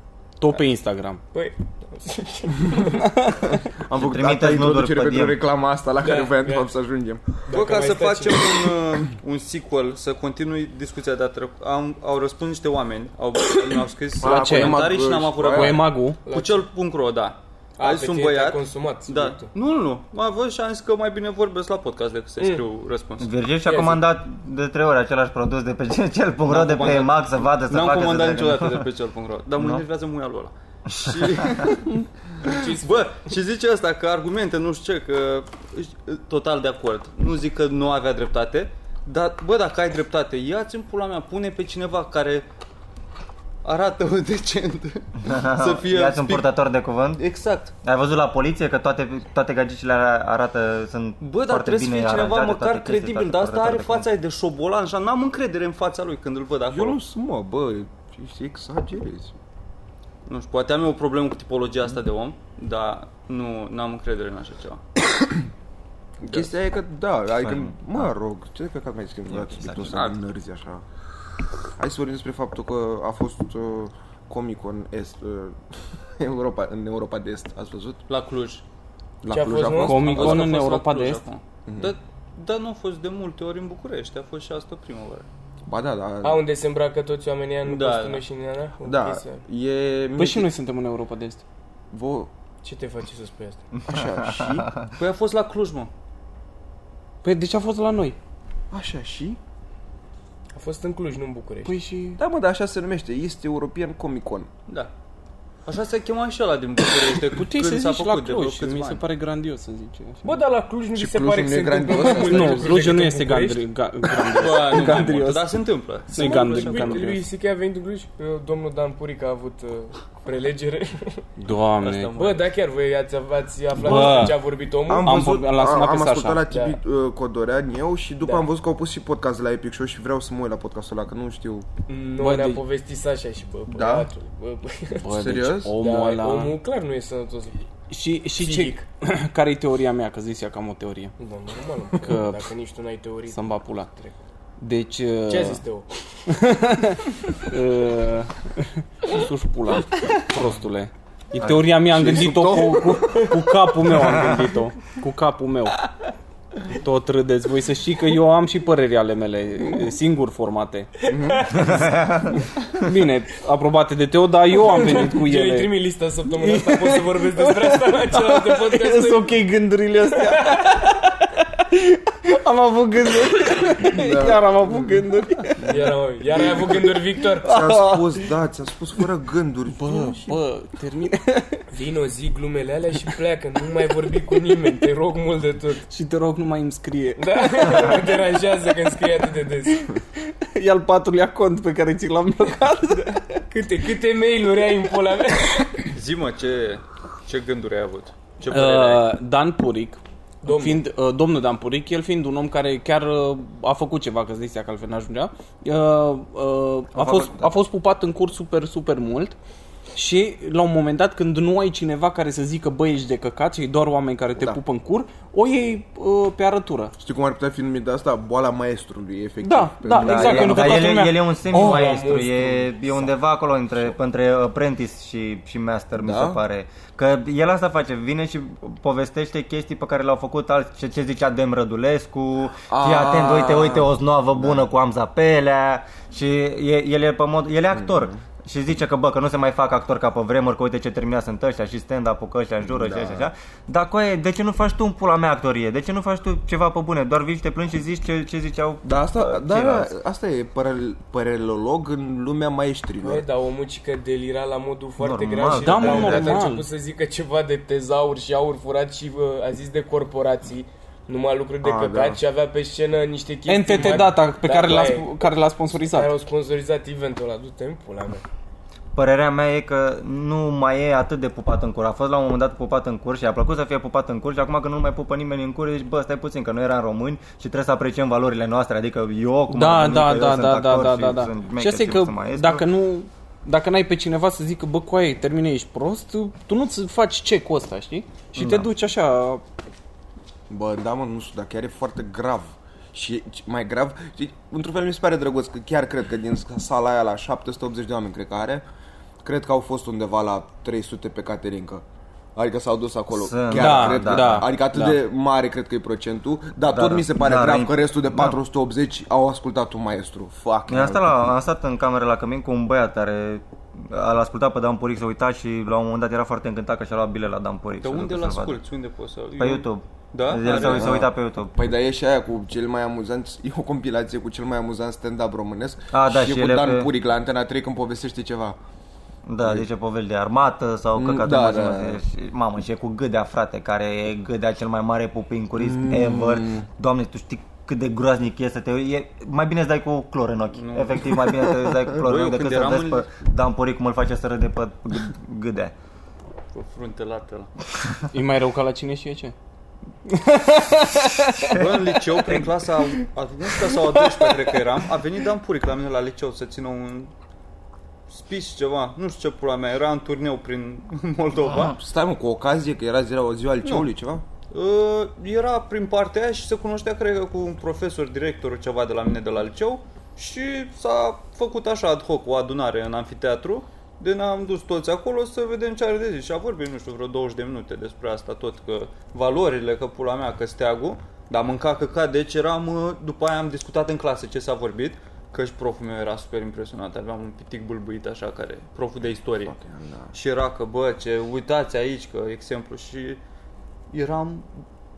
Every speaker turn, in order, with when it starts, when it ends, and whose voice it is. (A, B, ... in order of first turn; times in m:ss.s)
0:00.4-0:01.2 A
0:01.3-0:03.2 B
0:03.5-0:07.4 C
0:04.0-0:05.4 D
0:06.0-0:06.7 B
0:07.4-0:08.5 B
0:07.5-0:23.3 E
0:14.2-0:15.8 C
0:14.2-0:14.9 A
0:15.5-0:16.2 A
0:16.2-0:16.6 B
0:17.8-0:19.5 B
0:23.2-0:28.8 D
0:23.6-0:24.0 B
0:26.4-0:42.4 E
0:29.6-0:29.8 D
0:30.9-0:31.7 D
0:32.4-0:33.1 B
0:43.6-0:46.6 E
0:45.2-0:47.2 D
0:47.2-0:47.7 E
0:47.8-0:54.1 D
0:51.2-0:57.0 E
0:56.7-0:59.3 C
1:00.3-1:04.8 E
1:06.2-1:10.8 C
1:06.2-1:06.5 E
1:07.4-1:07.8 D
1:09.3-1:09.9 D
1:09.9-1:10.2 E
1:11.8-1:15.6 C
1:16.2-1:18.0 C
1:18.1-1:18.6 E
1:19.2-1:20.5 C
1:19.3-1:20.1 B
1:19.8-1:21.2 A
1:20.0-1:25.3 E
1:21.7-1:21.9 C
1:25.7-1:26.5 C
1:26.2-1:29.4 B
1:27.6-1:28.2 E
1:28.8-1:30.5 C
1:30.2-1:31.4 A
1:31.9-1:32.3 C
1:32.6-1:33.6 B
1:33.9-1:34.7 C
1:34.0-1:34.9 D
1:35.0-1:35.9 E
1:37.2-1:38.2 A
1:38.7-1:39.4 C
1:40.5-1:41.7 B
1:41.6-1:42.2 A
1:42.2-1:44.5 C
1:45.6-1:49.0 E
1:47.3-1:50.3 A
1:50.2-1:53.6 B
1:50.9-1:52.8 C
1:51.9-1:55.6 A
1:54.4-1:57.2 E
1:56.1-1:57.2 A
1:56.1-2:01.2 B
2:01.4-2:02.2 A
2:01.8-2:02.5 E
2:02.2-2:05.2 B
2:03.8-2:04.4 A
2:03.8-2:04.3 C
2:04.8-2:11.6 C
2:05.0-2:06.4 A
2:06.5-2:06.8 B
2:11.9-2:15.0 B
2:12.2-2:12.6 A
2:13.7-2:14.1 C
2:14.9-2:16.6 A
2:15.1-2:15.7 C
2:15.8-2:17.6 B
2:17.9-2:21.1 A
2:18.4-2:18.8 B
2:21.2-2:24.2 B
2:22.0-2:22.5 A
2:23.3-2:23.9 A
2:24.6-2:25.6 A
2:25.3-2:25.9 B
2:26.3-2:35.8 A
2:31.4-2:33.3 C
2:36.7-2:40.9 A
2:41.0-2:41.9 B
2:41.1-2:41.7 C
2:41.7-2:42.4 D
2:42.7-2:45.8 A
2:44.6-2:49.3 B
2:46.4-2:55.9 A
2:50.2-2:50.7 B
2:53.8-2:55.0 C
2:55.6-2:57.5 B
2:57.4-2:58.2 A
2:57.4-3:00.4 C
2:59.7-3:01.6 A
3:01.7-3:05.8 B
3:05.9-3:08.2 A
3:07.2-3:09.8 B
3:09.7-3:13.4 A
3:13.5-3:15.9 B
3:15.9-3:19.0 E
3:18.5-3:29.4 A
3:20.4-3:20.8 B
3:27.0-3:27.5 D
3:29.9-3:36.9 A
3:37.0-3:40.8 C
3:39.4-3:42.0 A
3:40.0-4:09.9 D
3:41.5-3:43.0 B
3:46.0-3:46.4 C
3:52.7-3:54.6 C
3:57.7-3:58.2 C
4:02.6-4:03.3 C
4:08.8-4:13.2 C
4:13.0-4:25.1 B
4:15.0-4:16.5 D
4:15.5-4:16.6 A
4:21.6-4:22.2 C
4:23.5-4:26.1 A
4:25.8-4:28.2 B
4:28.9-4:42.7 D
4:39.5-4:49.4 A
4:48.4-4:48.7 D
4:50.5-4:58.6 C
4:59.2-5:01.8 C
5:02.4-5:11.3 C
5:03.1-5:04.5 D
5:03.5-5:05.0 A
5:06.7-5:08.4 D
5:10.7-5:18.6 D
5:17.8-5:21.0 E
5:19.4-5:21.5 D
5:20.4-5:28.6 C
5:25.9-5:26.9 D
5:29.2-5:45.7 D
5:30.9-5:32.0 C
5:35.6-5:36.6 C
5:40.5-5:41.2 E
5:41.9-5:43.1 E
5:46.5-5:47.5 E
5:48.1-5:49.3 A
5:50.1-5:51.6 A
5:51.2-5:51.7 D
5:51.5-5:57.1 E
5:53.7-5:54.4 A
5:58.1-6:01.8 E
6:01.7-6:04.2 C
6:03.6-6:03.9 E
6:04.5-6:29.6 E
6:29.4-6:30.1 C
6:30.1-6:33.2 E
6:33.9-6:34.5 E